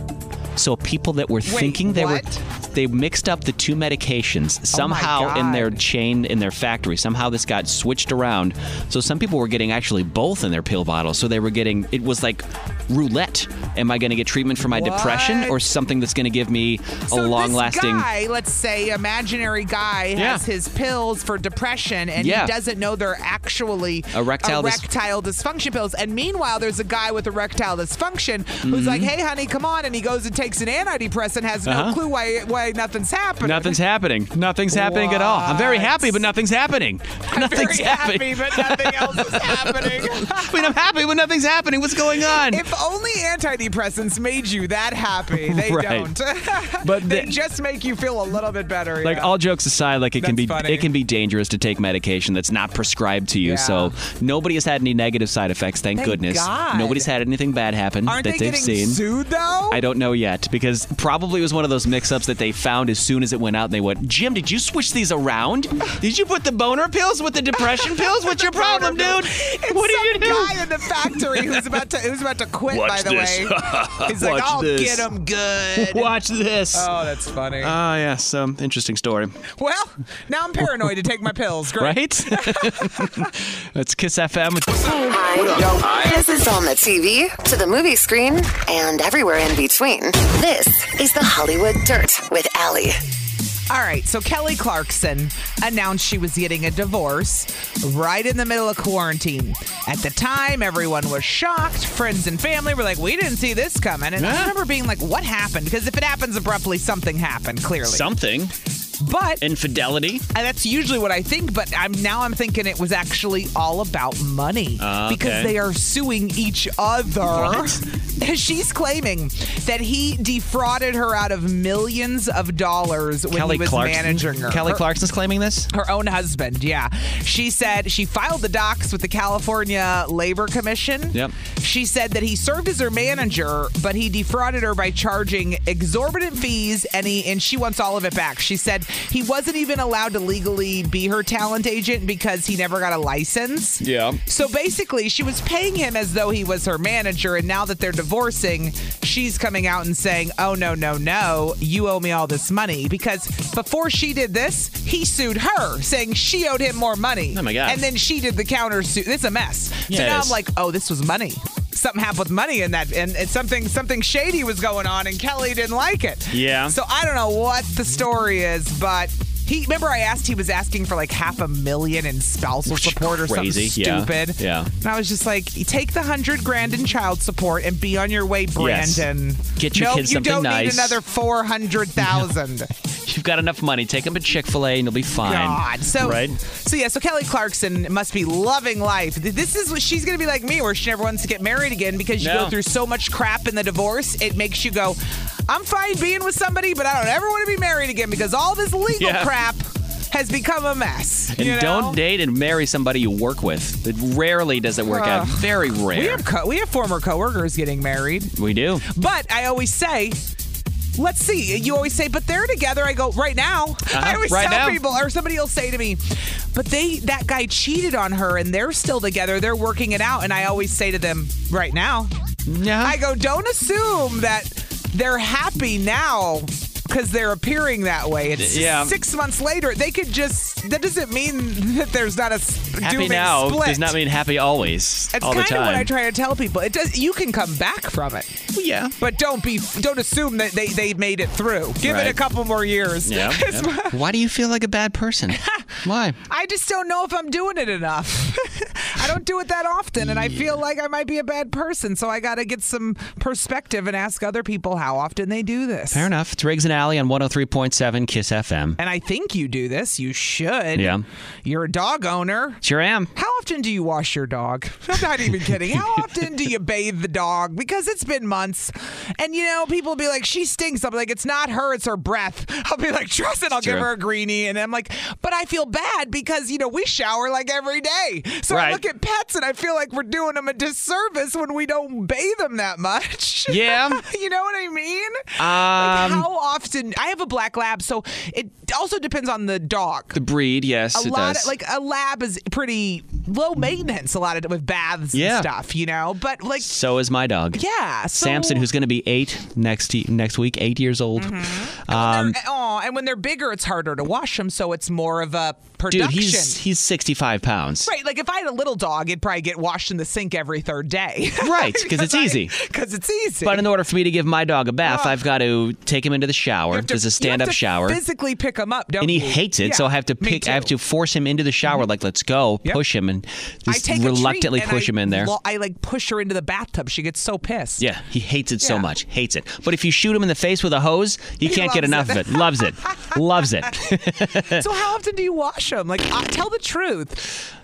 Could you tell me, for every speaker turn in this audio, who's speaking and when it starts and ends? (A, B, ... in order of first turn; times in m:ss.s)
0:00.6-0:18.1 A
0:01.4-0:02.4 B
0:04.7-0:05.8 B
0:14.6-0:15.6 B
0:17.1-0:33.8 B
0:20.1-0:20.4 A
0:22.2-0:22.5 A
0:24.1-0:24.8 A
0:28.6-0:29.1 A
0:31.6-0:32.0 A
0:33.4-0:42.7 A
0:34.7-0:36.2 B
0:37.3-0:40.7 B
0:42.3-0:49.3 B
0:45.3-0:46.1 A
0:46.8-0:47.3 A
0:49.0-0:59.0 A
0:50.2-0:50.9 B
0:53.4-0:54.0 B
0:56.0-0:57.1 B
0:58.0-0:59.8 B
0:59.7-1:11.8 A
1:07.8-1:16.1 B
1:12.7-1:15.1 A
1:15.7-1:16.9 A
1:16.7-1:17.7 B
1:17.6-1:19.4 A
1:19.5-1:23.3 B
1:21.8-1:24.9 A
1:24.9-1:33.0 C
1:33.7-1:48.1 B
1:44.2-1:44.6 A
1:47.8-1:48.5 A
1:49.0-1:49.4 B
1:49.4-1:50.2 A
1:50.3-2:04.8 B
1:54.8-1:55.6 A
1:57.3-1:57.8 A
2:03.3-2:05.7 A
2:05.7-3:02.7 B
2:23.8-2:24.2 A
2:37.3-2:37.8 A
2:39.9-2:40.4 A
2:46.3-2:46.8 A
2:52.6-2:54.7 A
2:58.6-3:01.0 A
3:03.0-3:06.4 A
3:05.2-3:22.0 B
3:12.2-3:12.5 A
3:19.0-3:19.3 A
3:21.3-3:26.2 A
3:24.9-3:28.3 B
3:28.4-3:28.8 A
3:28.8-3:30.2 B
3:31.0-3:42.1 B
3:33.9-3:34.8 A
3:42.4-3:43.0 A
3:42.8-3:54.0 B
3:48.4-3:49.0 A
3:52.8-3:55.9 A
3:55.1-3:58.4 B
3:58.5-3:59.0 A
3:59.0-4:04.0 B
4:01.8-4:02.2 A
4:03.0-4:06.2 A
4:05.3-4:05.7 B
4:06.3-4:16.1 B
4:15.9-4:18.8 A
4:18.8-4:20.9 B
4:20.7-4:21.0 A
4:21.4-4:22.6 B
4:22.6-4:23.1 A
4:23.1-4:50.2 B
4:33.6-4:33.9 A
4:38.5-4:38.8 A
4:43.5-4:44.0 A
4:45.4-4:46.2 A
4:50.1-4:51.5 A
4:50.9-4:56.7 B
4:55.1-4:55.5 A
4:56.6-4:57.6 A
4:57.5-4:58.6 B
4:58.1-5:02.4 A
5:01.2-5:06.6 B
5:05.9-5:07.9 A
5:07.8-5:13.6 B
5:11.4-5:12.6 A
5:13.4-5:18.0 A
5:14.8-5:15.1 B
5:16.7-5:20.7 B
5:19.0-5:25.3 A
5:23.7-5:27.8 B
5:27.8-5:34.7 A
5:28.6-5:28.8 B
5:31.4-5:33.1 B
5:34.5-5:37.4 B